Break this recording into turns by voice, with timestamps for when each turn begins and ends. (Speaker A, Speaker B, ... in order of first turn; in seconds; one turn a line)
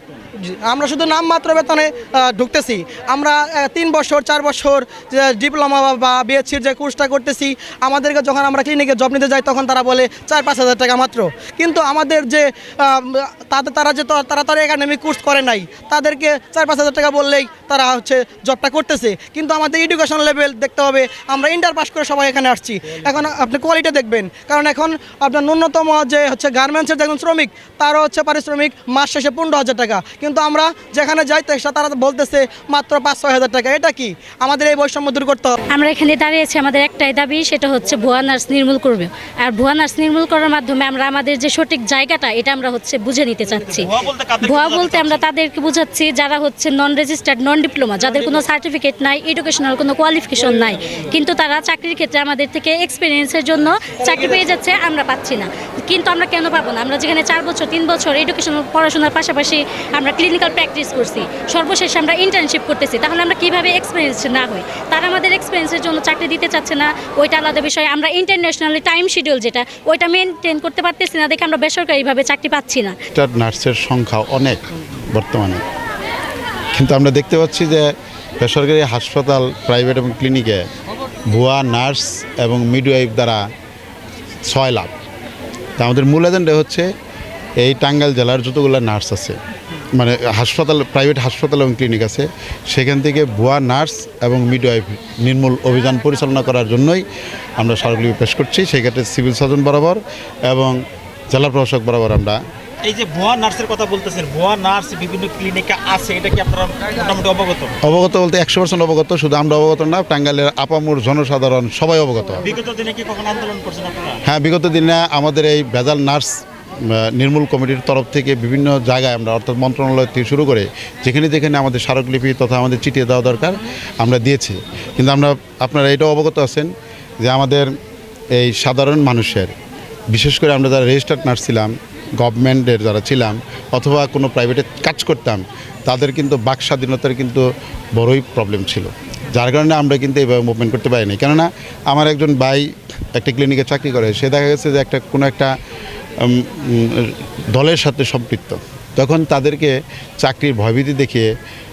Speaker A: 0.4-35.6
Speaker B: 35.7-43.9
Speaker C: 43.6-45.3
Speaker B: 44.4-73.0
Speaker D: 73.2-75.6
Speaker D: 76.7-80.7
Speaker D: 81.3-83.4
Speaker D: 84.5-84.9
Speaker D: 85.8-86.9
Speaker D: 87.6-89.4
Speaker D: 90.0-97.0
Speaker D: 97.6-102.4
Speaker C: 102.8-107.8
Speaker D: 107.8-112.5
Speaker C: 112.4-114.2
Speaker D: 114.3-127.7
Speaker D: 128.3-129.6
Speaker D: 130.1-145.5
Speaker D: 146.2-151.3